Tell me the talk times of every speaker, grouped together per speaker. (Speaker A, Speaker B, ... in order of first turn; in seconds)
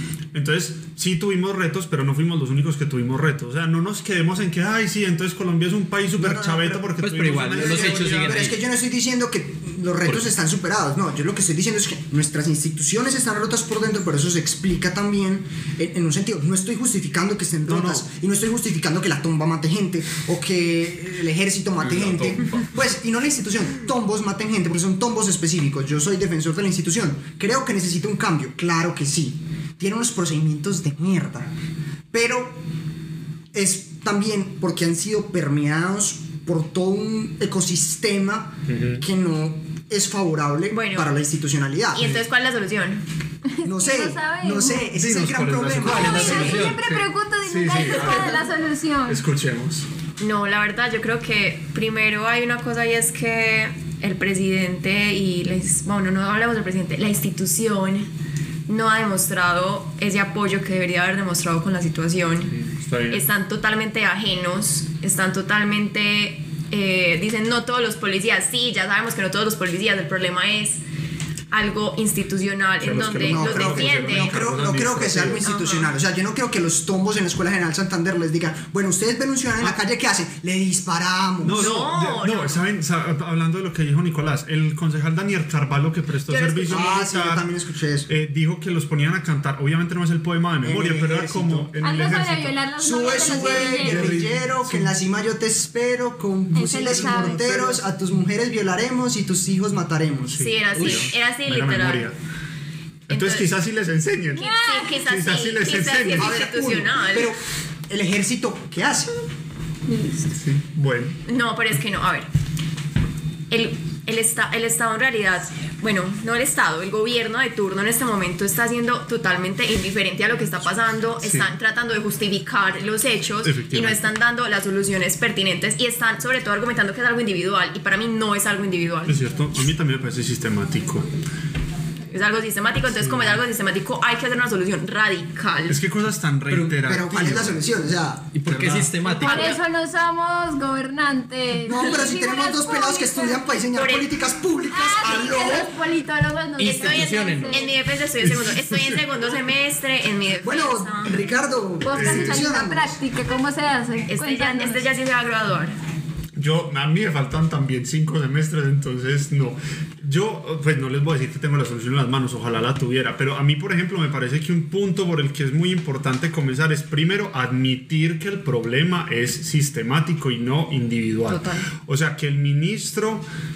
Speaker A: 0.3-8.5, 17.7-18.0, 21.8-22.8, 38.7-39.0, 45.0-48.5, 49.0-49.9, 62.5-63.2, 72.8-75.4, 81.4-87.5, 88.1-94.9, 96.8-97.8, 100.3-102.1, 103.1-104.5, 105.0-106.4, 110.3-111.2, 121.2-121.5, 123.4-124.0, 129.1-131.0, 133.0-133.4, 135.7-137.7, 138.4-139.4, 148.2-149.0, 151.9-152.5, 156.4-173.2
Speaker B: 6.2-6.8, 7.4-31.5, 32.1-32.6, 33.5-42.2, 43.6-46.6, 73.1-81.7, 86.7-88.1, 90.6-91.7, 92.8-100.5, 106.1-109.1, 136.8-138.3, 141.6-145.8, 150.4-153.0
Speaker C: 7.0-8.6, 45.8-47.0, 136.5-136.8, 138.3-139.5, 146.6-147.6
Speaker D: 40.7-41.1, 41.9-43.0, 50.2-58.1, 58.7-62.5, 63.1-70.8, 71.5-74.5, 75.4-75.9, 81.5-82.6, 86.3-86.9, 100.3-102.1, 103.1-103.5, 104.4-107.3, 111.3-112.3, 113.5-129.2, 132.1-135.8, 139.2-139.6, 143.7-144.2, 146.6-151.2, 154.1-155.8, 171.2-171.7
Speaker E: 43.5-44.9, 46.0-49.2, 91.8-94.2, 96.5-97.4, 104.4-104.9, 109.9-110.2, 139.2-143.5, 144.7-147.7, 151.8-154.8